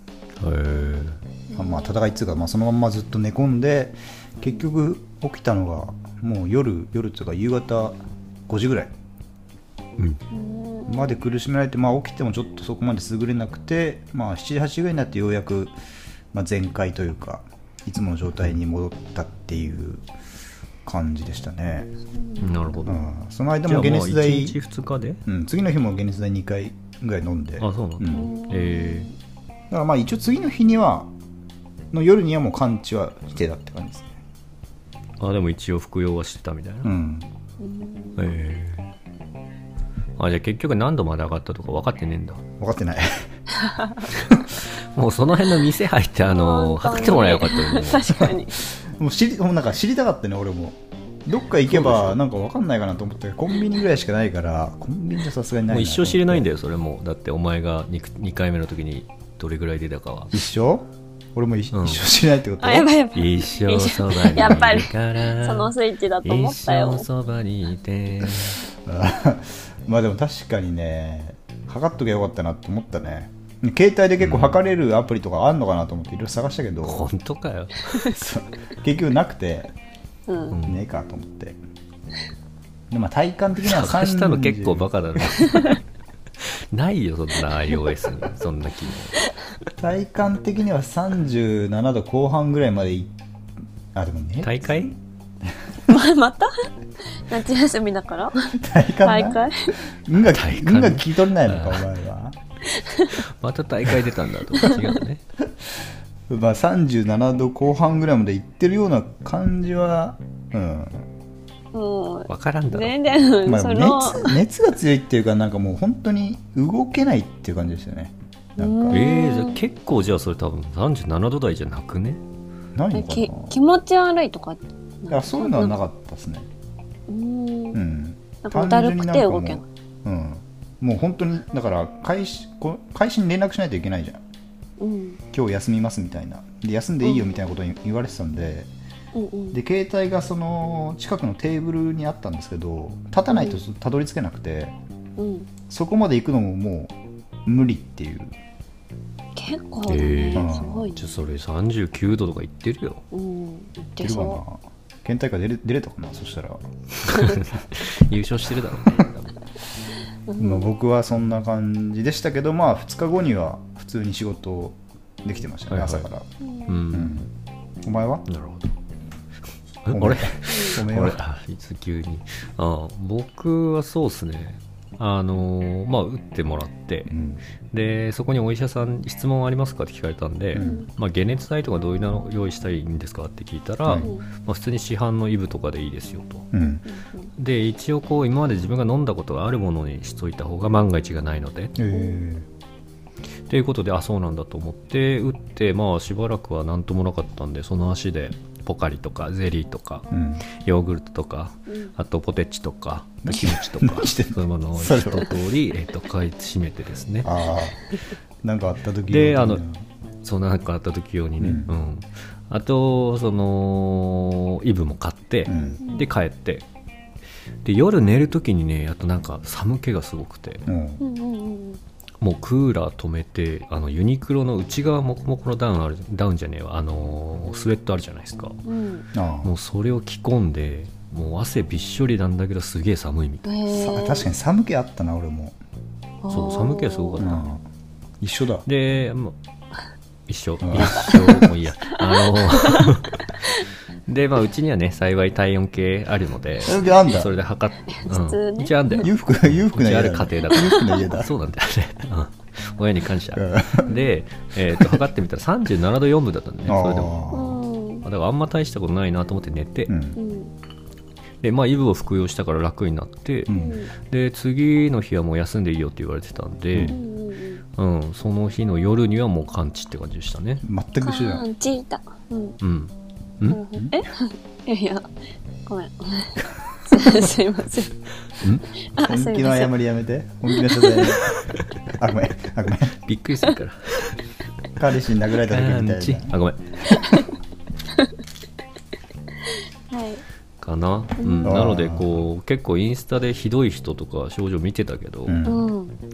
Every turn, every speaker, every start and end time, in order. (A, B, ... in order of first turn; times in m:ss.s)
0:00.4-0:01.2 A
0:01.5-0:02.2 B
0:01.5-0:08.0 C
0:08.5-0:08.9 C
0:10.3-0:11.2 B
0:10.9-0:15.7 C
0:16.3-0:20.0 C
0:20.8-0:21.9 C
0:22.4-0:23.1 A
0:22.8-0:24.6 C
0:23.7-0:25.2 A
0:25.3-0:28.3 C
0:27.6-0:29.1 A
0:28.1-0:29.1 B
0:29.7-0:31.1 C
0:31.9-0:34.1 C
0:35.2-0:36.9 A
0:36.8-0:37.3 C
0:37.6-0:38.4 B
0:38.2-0:38.9 A
0:40.2-0:42.4 A
0:42.6-0:43.2 C
0:43.6-0:44.0 B
0:44.1-0:48.2 A
0:46.3-0:48.6 B
0:48.7-0:56.5 C
0:51.7-0:52.2 A
0:55.7-1:00.3 A
1:00.3-1:02.9 C
1:01.7-1:02.0 A
1:02.6-1:07.1 B
1:03.1-1:05.7 A
1:06.2-1:08.6 A
1:08.8-1:17.1 C
1:14.2-1:14.6 A
1:16.8-1:18.0 A
1:18.0-1:19.7 C
1:20.3-1:20.6 B
1:20.5-1:20.8 A
1:20.7-1:21.6 C
1:22.9-1:25.4 C
1:23.6-1:25.8 A
1:26.4-1:29.3 A
1:29.8-1:33.1 C
1:34.0-1:35.0 C
1:34.4-1:34.9 A
1:35.9-1:36.5 B
1:37.1-1:39.8 B
1:38.5-1:39.4 C
1:40.0-1:42.4 C
1:40.2-1:41.9 A
1:42.7-1:43.2 B
1:43.1-1:45.2 A
1:44.6-1:44.9 B
1:46.3-1:51.1 C
1:51.7-1:54.4 B
1:52.3-1:53.0 A
1:53.5-1:59.0 C
1:58.6-1:59.6 B
1:58.9-2:02.2 A
2:02.8-2:03.6 C
2:02.9-2:05.8 B
2:05.1-2:06.5 C
2:07.1-2:07.8 B
2:07.7-2:14.2 C
2:08.4-2:09.7 B
2:14.8-2:15.2 B
2:15.3-2:18.7 C
2:17.0-2:17.3 B
2:19.1-2:19.6 B
2:19.5-2:24.8 C
2:23.3-2:23.6 B
2:25.2-2:25.5 B
2:25.7-2:26.9 C
2:27.5-2:28.3 C
2:29.4-2:31.1 B
2:29.9-2:33.0 A
2:30.4-2:30.9 C
2:33.1-2:34.4 B
2:34.0-2:36.6 C
2:37.0-2:39.4 A
2:37.1-2:37.4 B
2:40.3-2:40.7 B
2:40.4-2:46.3 C
2:45.7-2:46.1 A
2:46.4-2:46.8 B
2:46.7-2:47.2 A
2:46.9-2:47.3 C
2:47.8-2:48.3 C
2:48.3-2:48.7 A
2:49.9-2:57.1 A
2:49.9-2:51.2 C
2:50.4-2:50.8 B
2:57.1-2:57.4 C
2:57.7-3:06.5 A
3:00.5-3:00.8 C
3:00.6-3:00.9 B
3:04.0-3:04.3 B
3:06.5-3:06.8 C
3:06.8-3:07.3 B
3:07.4-3:11.8 A
3:11.8-3:12.5 C
3:11.9-3:12.2 B
3:13.5-3:27.4 A
3:20.1-3:20.5 C
3:23.2-3:25.3 C
3:27.2-3:27.8 C
3:28.4-3:29.8 C
3:29.1-3:29.6 A
3:30.2-3:36.6 A
3:31.4-3:31.7 C
3:35.5-3:35.8 C
3:35.8-3:36.1 B
3:37.6-3:40.6 A
3:40.7-3:41.0 C
3:41.0-3:41.8 B
3:42.2-3:48.6 A
3:48.6-3:49.1 B
3:49.1-3:49.5 C
3:49.4-3:53.5 A
3:53.4-3:54.3 B
3:53.7-3:55.6 C
3:56.2-3:57.3 B
3:56.3-3:57.5 A
3:57.2-3:57.6 C
3:58.2-3:58.7 C
3:58.7-3:59.4 A
4:00.3-4:03.5 A
4:00.6-4:01.5 C
4:00.8-4:03.6 B
4:04.1-4:17.1 A
4:06.6-4:07.4 C
4:07.8-4:09.1 B
4:09.0-4:11.3 C
4:10.6-4:11.1 B
4:13.4-4:13.9 C
4:14.8-4:15.0 C
4:16.7-4:17.6 C
4:17.3-4:18.1 B
4:18.0-4:19.9 A
4:19.9-4:20.2 C
4:20.2-4:20.5 B
4:21.4-4:27.0 A
4:23.5-4:23.8 C
4:23.5-4:24.0 B
4:26.8-4:27.6 B
4:27.8-4:30.6 A
4:30.6-4:31.5 C
4:31.0-4:32.6 B
4:32.6-4:33.6 A
4:33.5-4:35.1 B
4:33.7-4:34.0 C
4:35.7-4:38.0 B
4:38.4-4:38.7 A
4:38.8-4:39.7 B
4:39.0-4:41.3 C
4:40.6-4:41.1 B
4:42.0-4:43.0 C
4:43.1-4:44.2 A
4:44.8-4:46.4 C
4:45.4-4:46.6 A
4:46.9-4:47.3 B
4:49.4-4:50.2 B
4:50.6-4:55.5 A
4:51.2-4:51.6 B
4:51.4-4:52.2 C
4:55.3-4:55.7 C
4:55.4-4:56.0 B